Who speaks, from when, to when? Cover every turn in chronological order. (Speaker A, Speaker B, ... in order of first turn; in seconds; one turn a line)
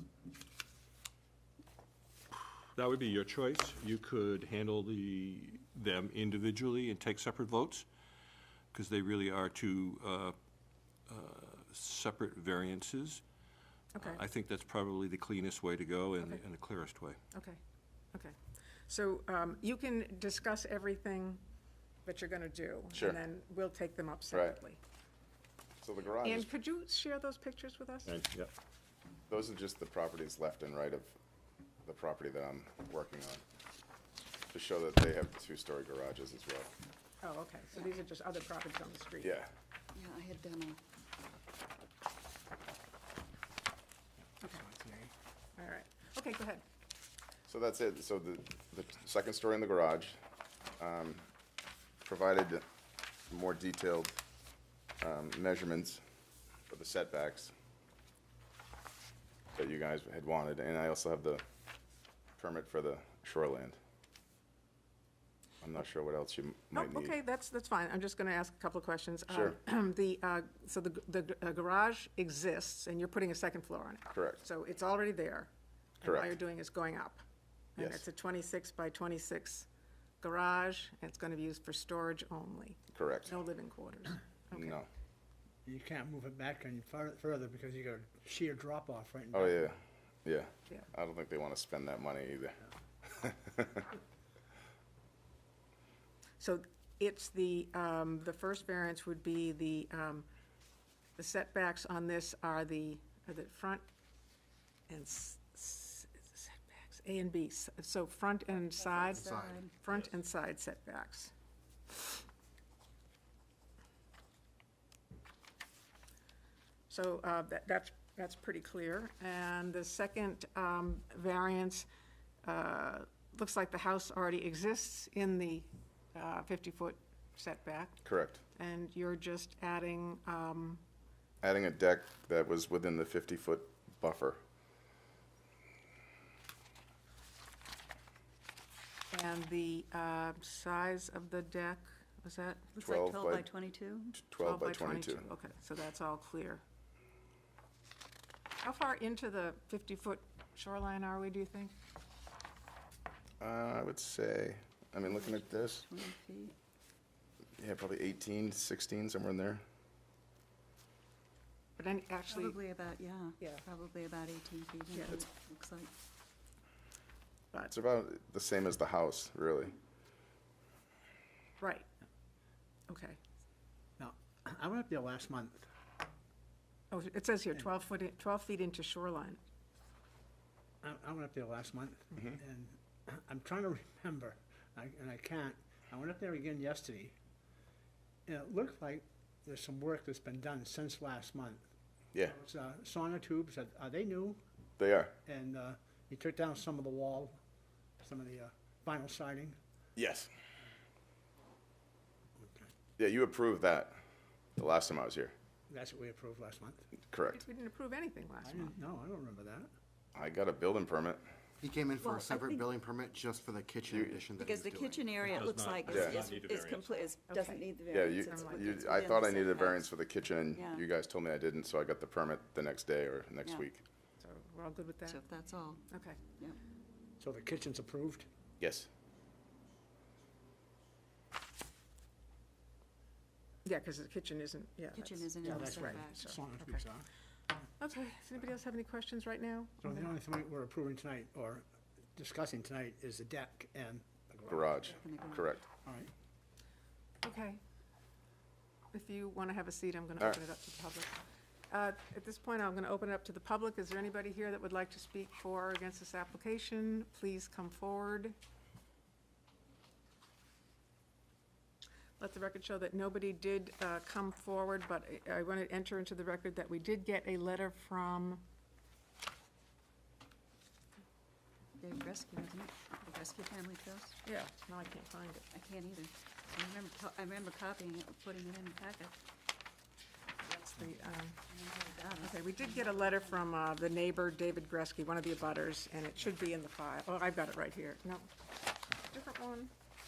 Speaker A: 2.7-7.9
Speaker A: 8.7-10.4
Speaker A: 11.1-13.2
Speaker A: 14.0-17.2
Speaker B: 17.3-17.6
Speaker B: 18.9-21.4
Speaker B: 22.1-24.8
Speaker C: 22.9-23.2
Speaker C: 24.3-24.6
Speaker C: 25.8-26.5
Speaker B: 26.2-28.1
Speaker A: 28.1-28.5
Speaker C: 29.3-31.2
Speaker C: 31.9-33.4
Speaker C: 34.5-36.7
Speaker B: 37.2-39.4
Speaker C: 39.2-39.5
Speaker D: 39.9-40.8
Speaker E: 44.6-45.1
Speaker B: 45.6-46.6
Speaker C: 47.5-50.2
Speaker C: 50.8-51.3
Speaker C: 52.0-52.6
Speaker C: 53.3-54.2
Speaker C: 55.0-56.0
Speaker C: 56.7-57.5
Speaker C: 59.5-61.4
Speaker C: 62.4-63.8
Speaker C: 65.6-67.2
Speaker B: 66.7-77.2
Speaker C: 69.3-69.6
Speaker C: 74.1-74.4
Speaker C: 76.0-76.4
Speaker B: 77.8-79.7
Speaker C: 77.8-78.0
Speaker B: 80.2-84.8
Speaker C: 82.9-83.3
Speaker C: 84.5-84.9
Speaker E: 85.7-89.6
Speaker C: 89.3-93.9
Speaker B: 96.4-100.3
Speaker B: 101.2-103.8
Speaker B: 104.9-111.3
Speaker D: 109.0-109.7
Speaker F: 109.1-109.6
Speaker B: 116.9-121.9
Speaker B: 122.4-128.0
Speaker C: 128.1-128.4
Speaker B: 128.5-130.8
Speaker C: 131.4-134.4
Speaker B: 139.1-142.7
Speaker D: 142.8-144.2
Speaker C: 142.8-143.5
Speaker C: 144.2-145.3
Speaker B: 144.4-146.6
Speaker B: 148.6-151.8
Speaker C: 153.4-155.9
Speaker D: 155.1-156.6
Speaker C: 157.6-159.6
Speaker B: 161.8-162.6
Speaker D: 162.3-165.9
Speaker B: 164.9-165.2
Speaker C: 167.7-169.7
Speaker B: 171.6-171.9
Speaker B: 172.9-173.2
Speaker E: 174.0-175.7
Speaker B: 176.9-179.4
Speaker E: 180.8-187.2
Speaker E: 188.3-191.6
Speaker E: 192.4-194.4
Speaker C: 194.8-195.1
Speaker E: 195.3-197.4
Speaker E: 198.0-199.6
Speaker C: 200.0-200.3
Speaker C: 203.0-204.0
Speaker C: 204.6-205.3
Speaker E: 205.7-206.9
Speaker C: 207.1-207.4
Speaker B: 207.3-208.8
Speaker E: 208.5-209.7
Speaker C: 210.2-211.2
Speaker F: 211.6-215.1
Speaker D: 212.0-212.7
Speaker C: 213.9-214.2
Speaker D: 214.4-219.9
Speaker A: 215.2-216.9
Speaker C: 215.9-216.3
Speaker B: 217.3-217.6
Speaker C: 217.9-223.8
Speaker B: 218.3-218.8
Speaker D: 220.5-220.8
Speaker B: 224.2-225.2
Speaker D: 225.1-225.8
Speaker B: 225.9-226.2
Speaker E: 227.2-228.3
Speaker C: 228.6-228.9
Speaker B: 233.7-236.8
Speaker D: 234.9-236.3
Speaker E: 235.5-237.1
Speaker B: 237.8-240.1
Speaker E: 239.8-241.7
Speaker E: 242.2-244.7
Speaker C: 244.5-245.6
Speaker D: 244.9-245.6
Speaker E: 245.8-246.1
Speaker B: 247.2-247.6
Speaker B: 248.9-251.2
Speaker B: 251.7-258.4
Speaker B: 262.2-268.4
Speaker D: 271.8-274.2
Speaker B: 274.2-275.5
Speaker D: 275.5-279.1
Speaker B: 280.4-281.4
Speaker D: 281.5-283.4
Speaker B: 282.2-288.3
Speaker B: 289.1-289.7